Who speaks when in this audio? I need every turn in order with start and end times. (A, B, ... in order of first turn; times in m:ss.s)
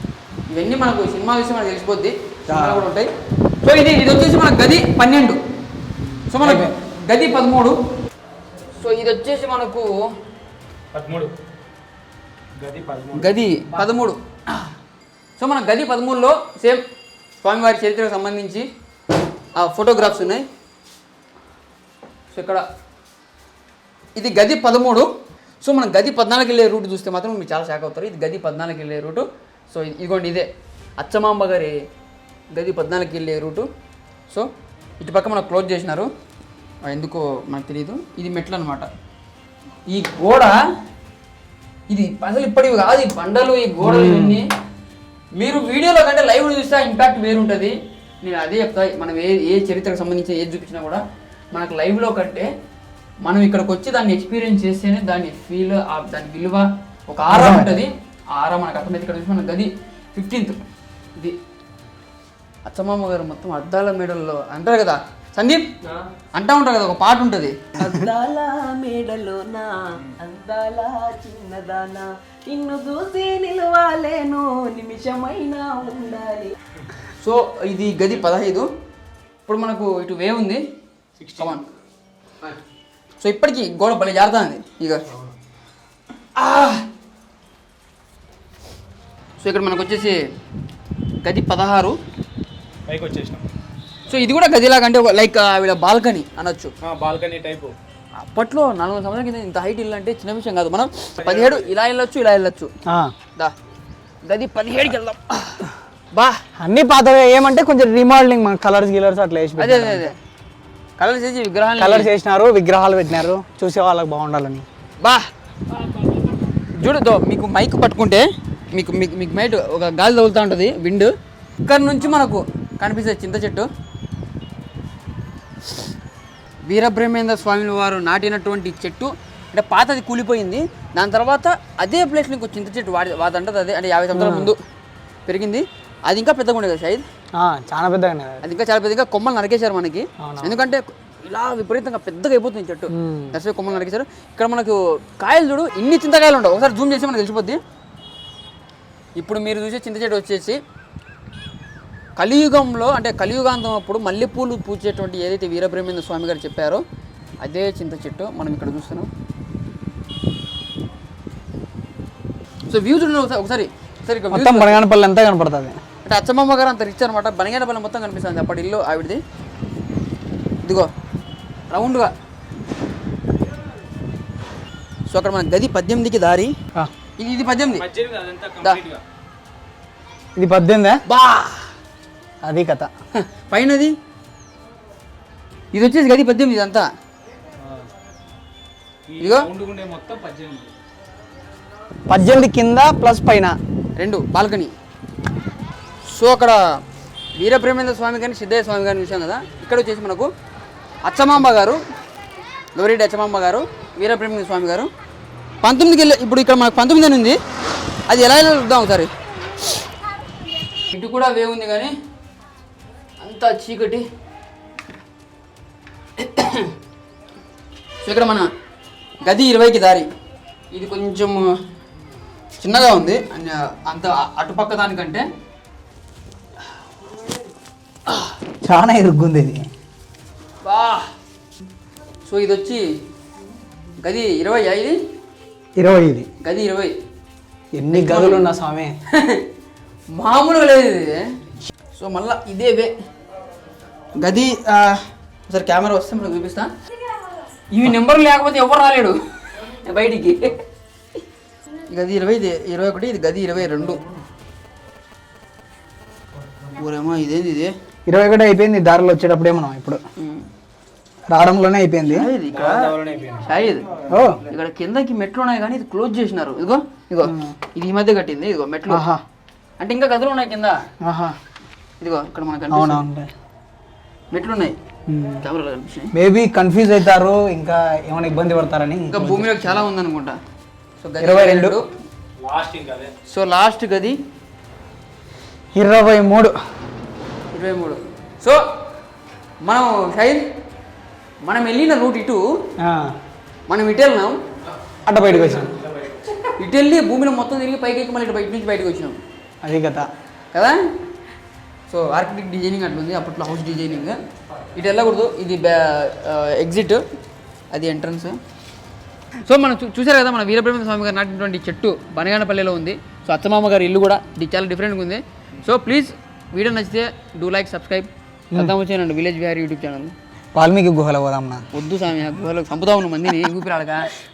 0:00.5-0:03.1 A
0:02.5-0:02.9 B
0:03.6-0:05.4 A
0:06.3-0:07.8 A
0:06.4-0:06.7 B
0:08.8-0:10.1 A
0:10.9-0:11.3 C
0:12.6-0:13.3 C
0:13.1-0:14.2 A
0:15.4-0:16.8 A
0:17.4-0:18.6 A
0:19.6-0:20.4 A
0:22.3-0:22.6 A
0:24.2-0:25.1 A
0:25.6-0:31.7 A
0:32.5-0:33.7 A
0:35.0-0:36.1 A
0:36.8-0:38.9 A
0:39.9-0:40.6 A
0:41.9-0:44.5 A
0:43.8-0:44.4 B
0:45.4-0:51.0 A
0:51.5-0:52.5 A
0:53.2-1:00.6 A
0:57.3-0:57.7 B
1:02.7-1:05.7 A
1:05.8-1:06.1 D
1:06.4-1:07.6 A
1:07.8-1:16.6 D
1:17.2-1:18.7 A
1:19.5-1:20.6 A
1:21.2-1:21.6 C
1:21.4-1:21.7 A
1:23.2-1:25.0 A
1:26.4-1:26.8 A
1:29.4-1:30.2 A
1:31.2-1:32.0 A
1:32.9-1:33.4 C
1:34.1-1:36.7 A
1:36.8-1:37.8 C
1:38.2-1:42.7 A
1:41.2-1:41.7 C
1:44.3-1:46.4 A
1:46.6-1:50.1 B
1:49.6-1:50.2 A
1:51.0-1:52.1 A
1:51.8-1:54.7 B
1:55.0-1:55.3 A
1:56.6-2:01.1 A
2:01.6-2:03.7 A
2:06.7-2:14.6 A
2:14.1-2:14.5 B
2:15.3-2:17.0 A
2:17.4-2:18.4 B
2:18.4-2:27.6 A
2:20.2-2:20.6 B
2:22.9-2:23.4 B
2:29.2-2:30.6 A
2:32.2-2:36.8 A
2:37.4-2:39.1 A
2:42.7-2:44.8 A
2:44.3-2:45.8 B
2:46.0-2:49.2 A
2:50.6-2:50.9 A
2:51.7-2:52.1 A
2:55.1-2:56.5 A
2:57.2-2:57.9 A
2:57.8-2:59.0 C
3:00.4-3:01.0 B
3:01.1-3:01.7 A
3:02.4-3:02.9 B
3:03.3-3:03.9 A
3:05.7-3:06.9 A
3:09.1-3:10.7 C
3:09.2-3:09.5 A
3:12.1-3:13.6 B
3:14.0-3:14.7 A
3:16.1-3:16.6 A
3:17.4-3:20.3 A
3:21.1-3:21.8 A
3:22.8-3:24.9 A
3:25.6-3:27.4 A
3:28.1-3:29.1 A
3:30.9-3:31.9 A
3:33.2-3:34.1 A
3:36.2-3:36.7 A
3:38.0-3:38.5 A
3:39.2-3:40.1 A
3:40.7-3:41.5 A
3:42.6-3:45.2 A
3:48.6-3:49.7 B
3:50.6-3:51.1 A
3:52.3-3:52.8 A
3:54.0-3:55.0 A
3:55.8-3:56.3 B
3:56.4-3:56.9 A
3:57.7-3:58.9 B
3:57.9-3:58.5 A
3:59.1-3:59.4 A
4:00.2-4:01.3 A
4:01.9-4:02.9 A
4:04.2-4:06.7 A
4:07.7-4:10.5 A
4:11.9-4:14.0 A
4:16.8-4:17.7 A
4:18.1-4:20.0 B
4:20.2-4:20.5 A
4:21.3-4:22.3 B
4:22.1-4:23.9 A
4:22.5-4:23.4 C
4:24.1-4:24.4 B
4:24.4-4:29.1 A
4:27.2-4:27.6 B
4:28.9-4:29.2 B
4:29.8-4:30.9 A
4:31.0-4:31.4 B
4:32.0-4:33.0 A
4:32.7-4:33.3 B
4:34.3-4:34.8 A
4:35.1-4:35.4 B
4:35.4-4:36.1 A
4:36.1-4:39.8 B
4:39.1-4:40.4 A
4:41.0-4:41.8 A
4:41.2-4:41.8 B
4:42.4-4:43.1 C
4:43.3-4:44.2 A
4:45.8-4:46.5 B
4:47.5-4:48.6 A
4:49.6-4:50.5 A
4:51.5-4:52.4 A
4:52.8-4:53.1 B
4:53.7-4:54.4 A
4:55.1-4:55.8 B
4:55.3-4:56.3 C
4:56.6-4:59.2 A
4:59.6-5:00.1 B
5:00.5-5:00.8 A
5:01.9-5:04.2 A
5:04.8-5:07.0 A
5:07.7-5:08.4 A
5:09.5-5:20.1 A
5:20.6-5:21.7 B
5:21.7-5:24.1 A